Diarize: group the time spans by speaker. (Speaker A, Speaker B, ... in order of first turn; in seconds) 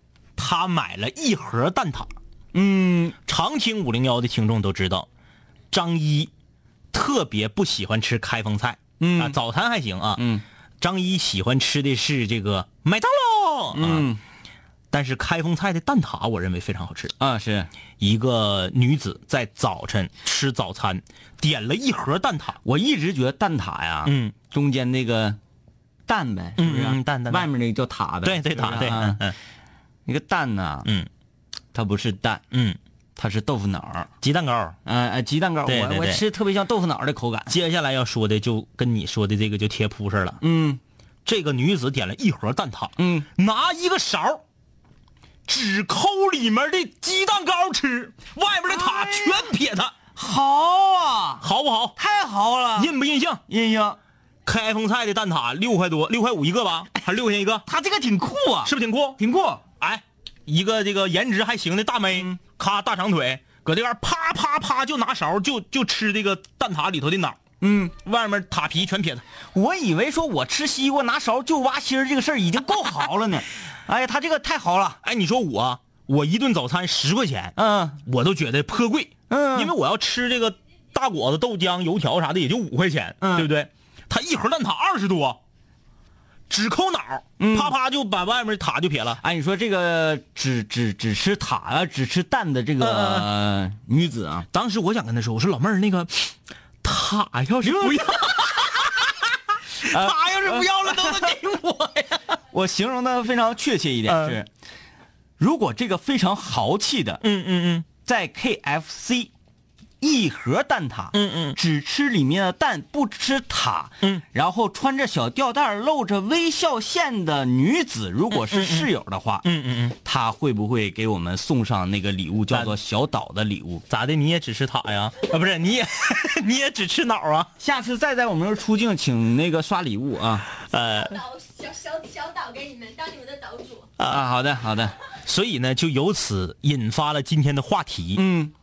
Speaker A: 0.4-2.1, 3.3-5.1, 5.7-6.3, 6.9-10.2, 10.8-14.1, 14.9-17.1, 18.0-22.6, 24.1-24.4, 26.6-27.5, 28.2-29.4, 32.5-32.8, 34.2-34.8, 35.6-36.3, 37.5-40.4, 41.2-44.4, 45.5-50.0, 51.4-52.0, 52.8-53.4, 54.5-57.7, 58.6-59.2, 59.8-67.4, 67.9-69.2, 75.0-85.4, 86.5-89.2, 92.8-93.3, 94.5-102.2, 104.1-104.4, 107.2-107.9, 111.1-111.6, 118.3-118.9, 119.4-120.0, 123.9-127.5, 130.6-131.2, 134.0-134.3, 135.3-138.2
Speaker B: 2.5-3.2, 9.0-9.4, 10.2-10.4, 13.8-14.2, 17.2-17.7, 22.6-25.4, 26.1-29.3, 30.1-30.9, 31.7-32.4, 33.2-34.1, 34.9-37.5, 40.4-40.8, 43.0-43.3, 48.7-49.5, 50.1-51.4, 52.0-52.9, 53.5-54.0, 57.7-59.6, 67.6-67.9, 69.5-75.0, 77.6-78.0, 79.3-79.8, 83.2-83.5, 87.4-87.8, 89.2-94.5, 97.6-98.6, 99.8-101.3, 102.5-104.5, 105.4-107.2, 108.0-109.3, 110.0-119.5, 120.0-123.8, 127.6-130.5, 134.1-134.9, 138.2-138.5
Speaker C: 130.9-133.9